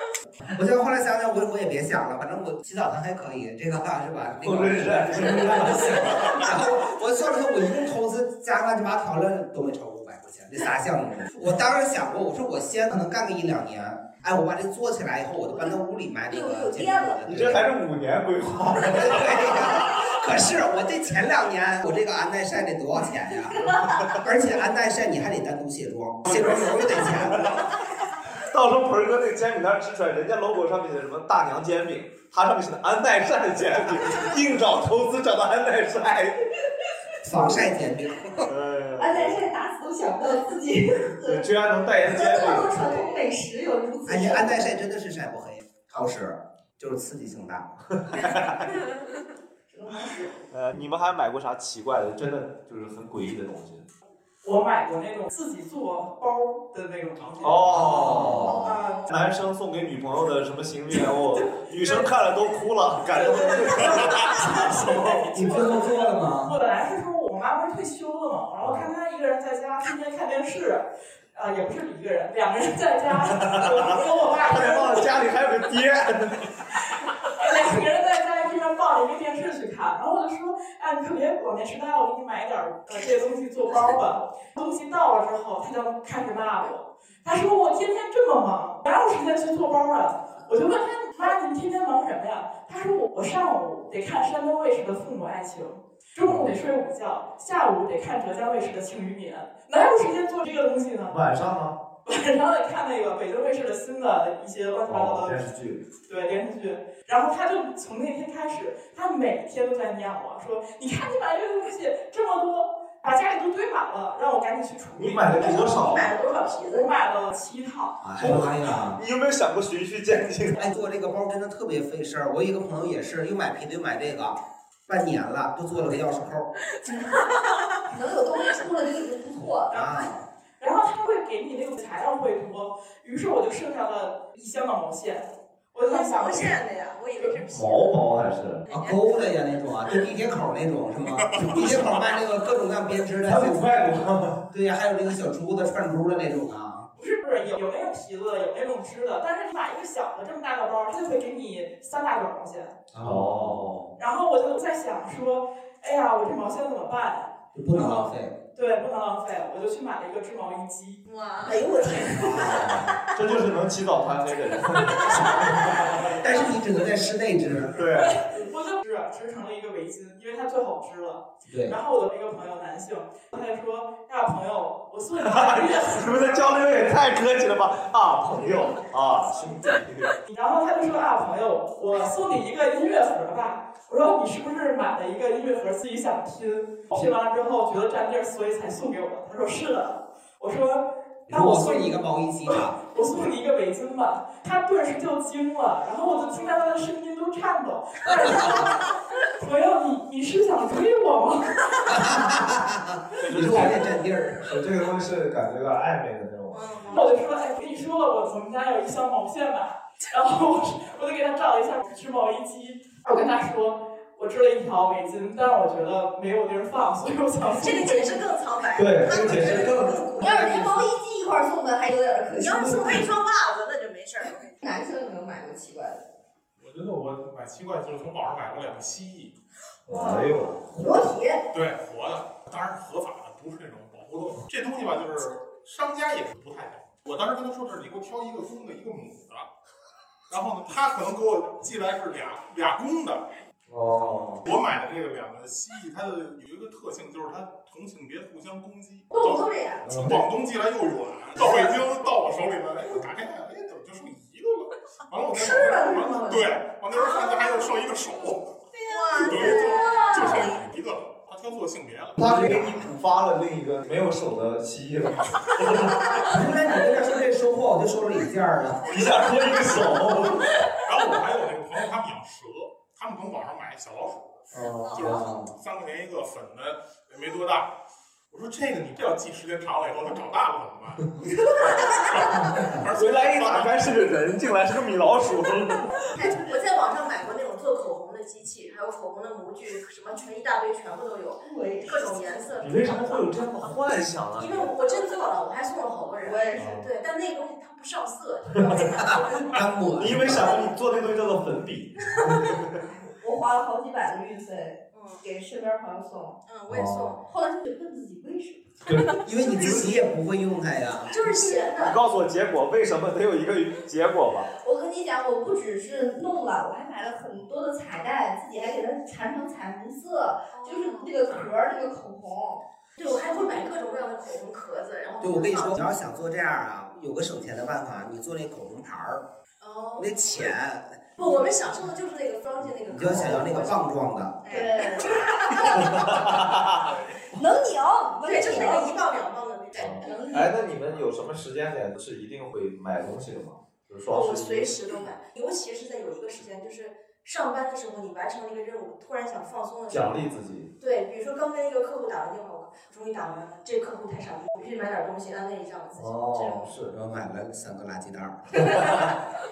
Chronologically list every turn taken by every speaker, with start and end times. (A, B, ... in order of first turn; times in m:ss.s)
0:00.5-0:17.6 A
0:04.4-0:06.4 B
0:16.3-0:17.2 C
0:17.2-0:20.1 B
0:18.9-0:27.7 A
0:23.5-0:24.2 C
0:26.2-0:27.7 B
0:28.3-0:36.4 B
0:37.2-0:38.5 A
0:38.4-0:39.5 B
0:39.0-0:41.4 C
0:41.2-0:42.9 B
0:42.0-0:44.7 C
0:44.1-0:47.7 A
0:48.0-0:48.8 B
0:49.7-0:50.4 C
0:50.5-0:53.8 B
0:54.4-0:59.1 D
0:57.4-1:05.3 B
0:57.8-0:58.6 A
0:58.7-0:59.0 E
1:01.8-1:02.0 D
1:03.2-1:10.8 D
1:03.2-1:04.0 E
1:04.9-1:06.6 A
1:08.6-1:08.9 B
1:11.3-1:15.2 D
1:13.1-1:16.6 B
1:17.3-1:41.2 D
1:36.2-1:36.6 B
1:41.1-1:41.8 B
1:42.0-1:45.4 D
1:44.8-1:45.8 B
1:46.1-1:56.0 D
1:54.9-1:56.1 B
1:55.4-1:57.0 E
1:56.6-1:58.0 D
1:58.0-2:00.7 B
1:58.0-1:59.0 A
2:00.6-2:06.5 A
2:06.8-2:07.3 C
2:06.9-2:07.6 E
2:07.9-2:09.8 C
2:09.7-2:10.2 A
2:09.7-2:10.0 D
2:10.6-2:16.6 D
2:15.8-2:18.0 E
2:17.5-2:18.6 B
2:18.6-2:20.0 E
2:18.7-2:26.9 A
2:21.1-2:22.1 F
2:23.2-2:24.4 B
2:27.0-2:32.8 D
2:32.9-2:33.6 A
2:33.0-2:33.9 B
2:34.0-2:41.0 D
2:37.5-2:38.3 A
2:41.0-2:42.8 E
2:41.4-2:42.5 C
2:42.2-2:46.0 B
2:44.9-2:46.4 E
2:46.2-2:47.8 A
2:47.7-2:48.2 B
2:48.0-2:56.7 D
2:51.5-2:51.8 A
2:55.2-3:00.1 B
3:00.2-3:18.8 D
3:11.3-3:12.8 A
3:16.0-3:16.7 E
3:19.4-3:21.6 D
3:21.8-3:24.5 A
3:23.2-3:27.0 B
3:26.5-3:27.2 E
3:26.9-3:38.2 D
3:37.5-3:40.8 E
3:38.7-3:40.5 B
3:40.2-3:43.0 C
3:42.3-3:44.5 E
3:44.6-3:46.0 C
3:46.6-3:49.3 F
3:49.9-3:51.0 B
3:49.9-3:51.4 C
3:51.5-3:59.4 F
4:00.3-4:03.2 F
4:03.7-4:04.5 B
4:03.9-4:18.5 F
4:09.1-4:10.0 C
4:09.8-4:10.2 B
4:15.3-4:16.5 C
4:16.9-4:17.7 E
4:18.7-4:20.6 E
4:19.2-4:20.5 C
4:19.2-4:22.9 F
4:22.2-4:26.2 B
4:26.2-4:29.1 A
4:28.9-4:30.5 B
4:30.8-4:37.7 F
4:34.5-4:35.5 B
4:34.9-4:35.2 E
4:38.3-4:41.1 F
4:41.3-4:41.8 C
4:41.6-4:43.8 F
4:42.9-4:45.9 B
4:46.1-4:46.5 C
4:46.2-4:53.8 E
4:51.4-4:52.4 C
4:52.6-4:54.7 B
4:54.3-5:00.6 E
4:56.2-4:56.8 C
4:56.6-4:56.9 B
4:59.0-5:00.7 A
5:00.0-5:02.8 B
5:02.1-5:02.3 E
5:03.1-5:06.4 C
5:04.9-5:05.2 E
5:06.4-5:07.2 E
5:06.7-5:07.2 B
5:07.2-5:08.7 C
5:08.8-5:09.8 B
5:08.9-5:09.8 E
5:09.2-5:11.2 A
5:11.1-5:12.0 E
5:11.8-5:14.5 B
5:14.6-5:23.4 C
5:20.5-5:21.2 E
5:23.0-5:25.8 E
5:25.2-5:29.2 A
5:29.6-5:30.5 E
5:30.0-5:31.0 A
5:31.2-5:33.9 E
5:32.9-5:34.4 A
5:33.1-5:33.4 B
5:34.4-5:36.3 E
5:34.4-5:36.1 C
5:35.8-5:36.8 B
5:37.3-5:39.0 C
5:38.2-5:40.4 E
5:39.8-5:45.0 B
5:39.8-5:40.6 C
5:44.1-5:50.2 E
5:49.9-5:50.7 B
5:50.8-5:56.7 E
5:55.9-5:56.9 B
5:56.9-5:59.0 A